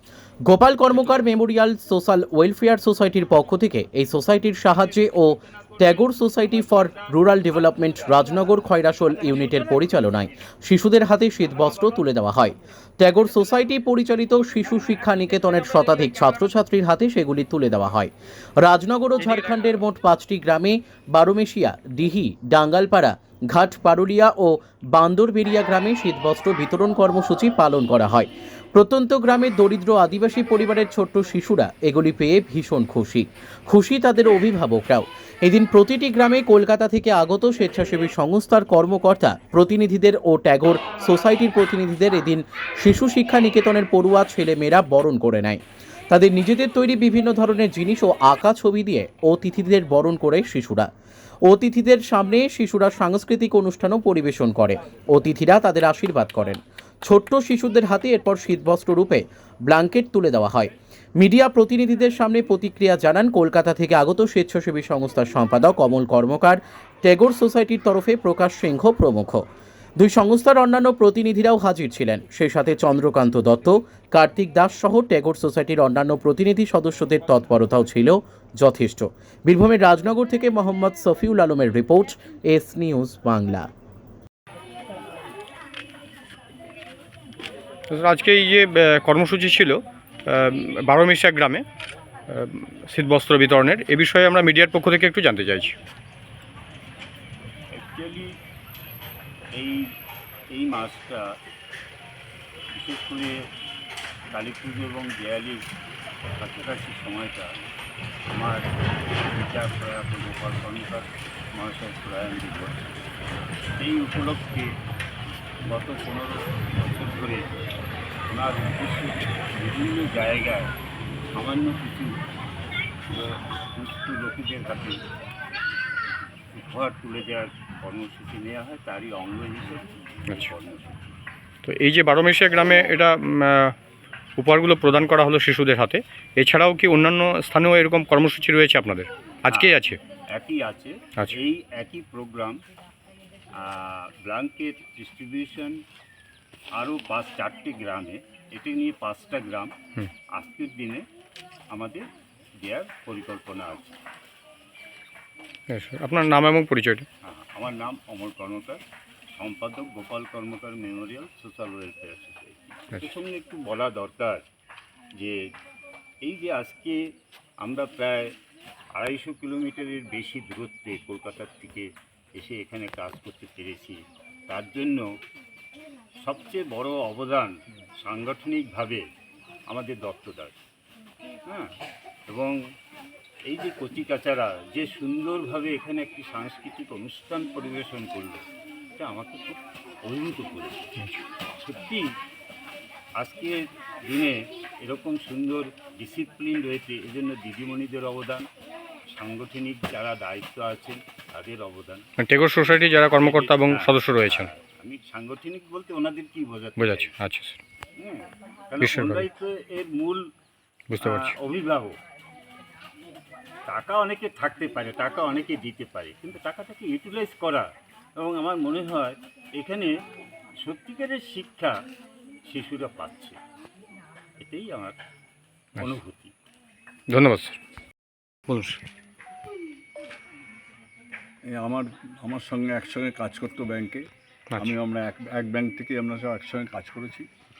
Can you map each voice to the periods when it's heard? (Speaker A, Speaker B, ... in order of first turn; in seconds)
Speaker A: 0.5-18.1, 18.6-50.9, 51.5-69.5, 70.0-83.7
Speaker B: 4.8-10.3, 97.8-98.3, 99.5-99.9, 100.5-101.3, 102.8-103.3, 104.3-105.6, 106.4-107.5, 108.3-113.0, 113.8-114.7, 115.7-117.5, 118.3-120.7, 121.3-122.3, 123.1-125.0, 126.5-131.2, 140.3-142.6, 143.6-145.8, 146.8-149.7, 150.3-151.1, 151.7-152.1, 152.6-153.9, 157.2-158.8, 159.4-164.4, 166.2-167.0, 167.6-168.3, 169.0-175.1, 176.2-179.0, 179.7-180.6, 182.3-182.6, 183.5-190.9, 191.6-192.1, 193.2-198.5, 199.1-202.1, 203.1-207.1, 208.0-210.2, 211.0-212.0, 213.7-219.9, 220.6-221.7, 222.5-223.4, 224.4-225.0, 225.8-226.3
Speaker C: 87.9-91.6, 92.3-95.8, 131.7-133.8, 134.4-140.0, 155.7-157.1, 202.2-204.5, 206.8-207.6, 208.8-209.2, 210.9-211.3, 227.1-227.6, 228.5-228.8
Speaker D: 231.5-234.1, 234.6-237.3